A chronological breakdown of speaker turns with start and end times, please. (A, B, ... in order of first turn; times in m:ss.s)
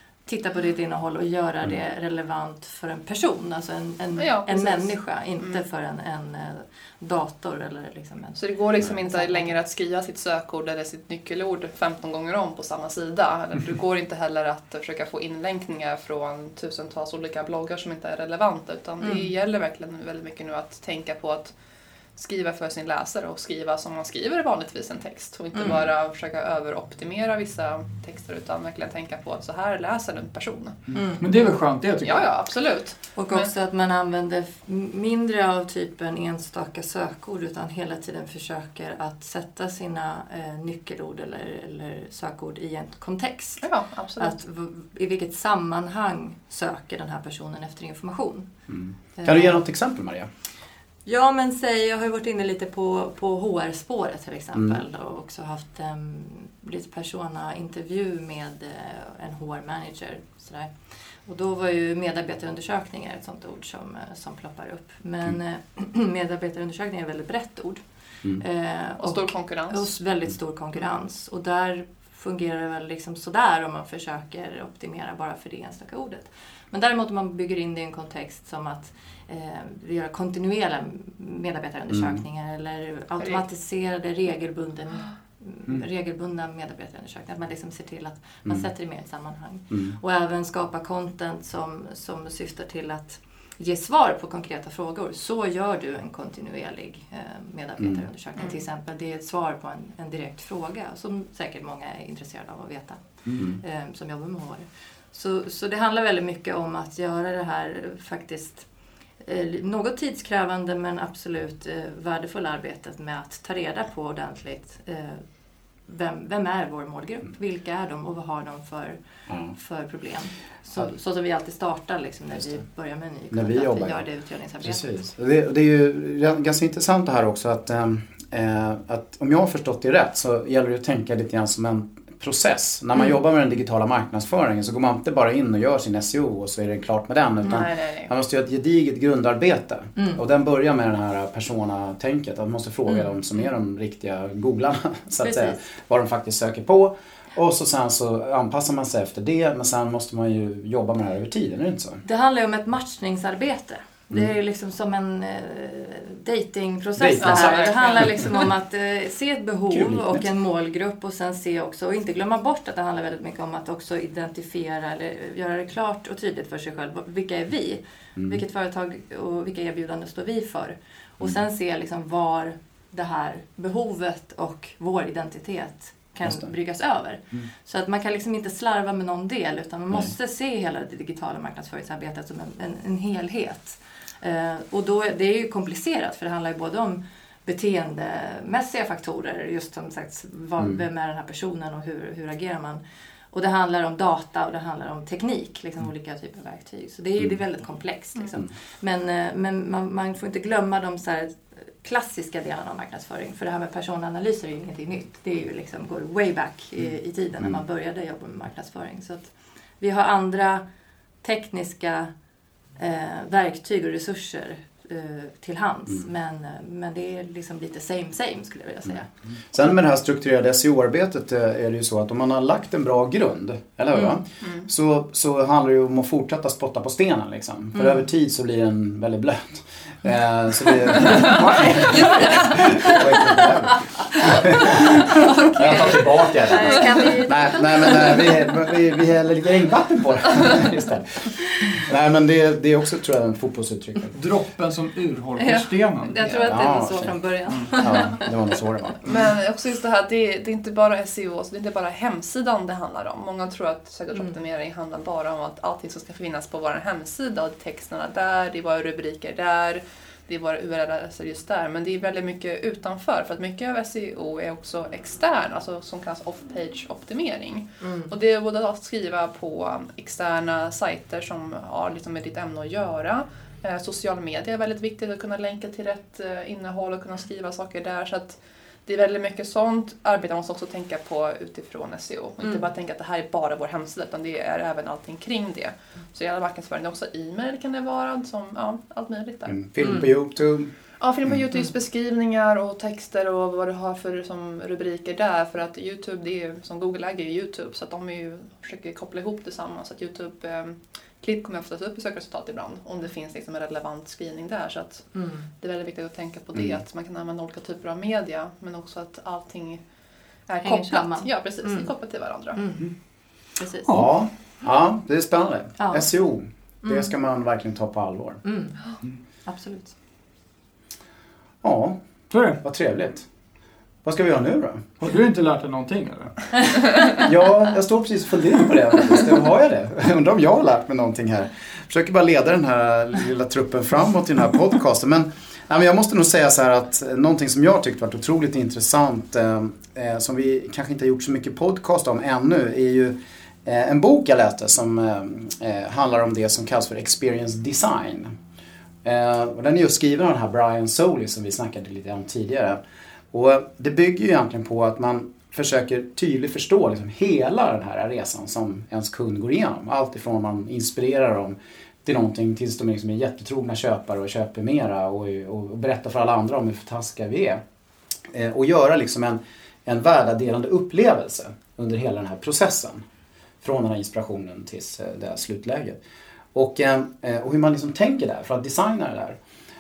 0:00.3-0:09.6 A
0:04.2-0:05.6 B
0:08.4-0:21.6 B
0:19.0-0:19.3 A
0:22.2-0:30.8 B
0:31.2-0:32.3 C
0:32.0-0:33.5 B
0:33.2-0:43.6 A
0:43.6-0:44.3 B
0:44.2-0:48.5 A
0:48.7-0:50.3 D
0:49.2-0:49.5 A
0:51.0-1:07.8 A
1:08.4-1:48.7 A
1:09.0-1:09.9 B
1:21.9-1:22.2 D
1:43.3-1:43.6 D
1:49.2-1:55.2 A
1:55.8-2:04.9 A
2:03.3-2:04.1 D
2:04.6-2:32.0 D
2:17.4-2:18.1 B
2:25.2-2:25.6 A
2:32.0-3:12.8 A
2:37.0-2:38.1 D
2:37.2-2:38.2 B
2:39.7-2:40.2 D
3:13.3-3:30.6 A
3:31.2-3:32.1 A
3:32.8-3:39.1 A
3:39.5-4:04.2 D
3:51.0-3:52.5 C
3:52.0-3:52.6 A
3:55.0-3:58.4 A
4:04.1-4:06.2 C
4:05.4-4:08.3 A
4:06.2-4:09.2 D
4:09.0-4:49.6 B
4:27.8-4:28.1 A
4:49.5-4:50.7 D
4:51.0-5:09.8 B
5:05.2-5:05.4 A
5:10.5-5:12.6 B
5:10.6-5:11.9 A
5:12.6-5:12.8 A
5:13.6-5:14.0 A
5:13.9-5:18.4 D
5:15.8-5:16.1 A
5:16.8-5:17.1 A
5:18.4-5:18.8 A
5:19.5-5:19.9 A
5:21.6-5:22.0 D
5:22.3-5:22.6 C
5:22.6-5:23.3 D
5:24.0-5:24.9 D
5:25.0-5:26.5 C
5:27.2-5:48.3 D
5:49.0-5:52.8 D
5:53.3-6:07.6 D
6:08.3-6:13.0 D
6:13.6-6:16.0 D
6:16.6-6:19.4 D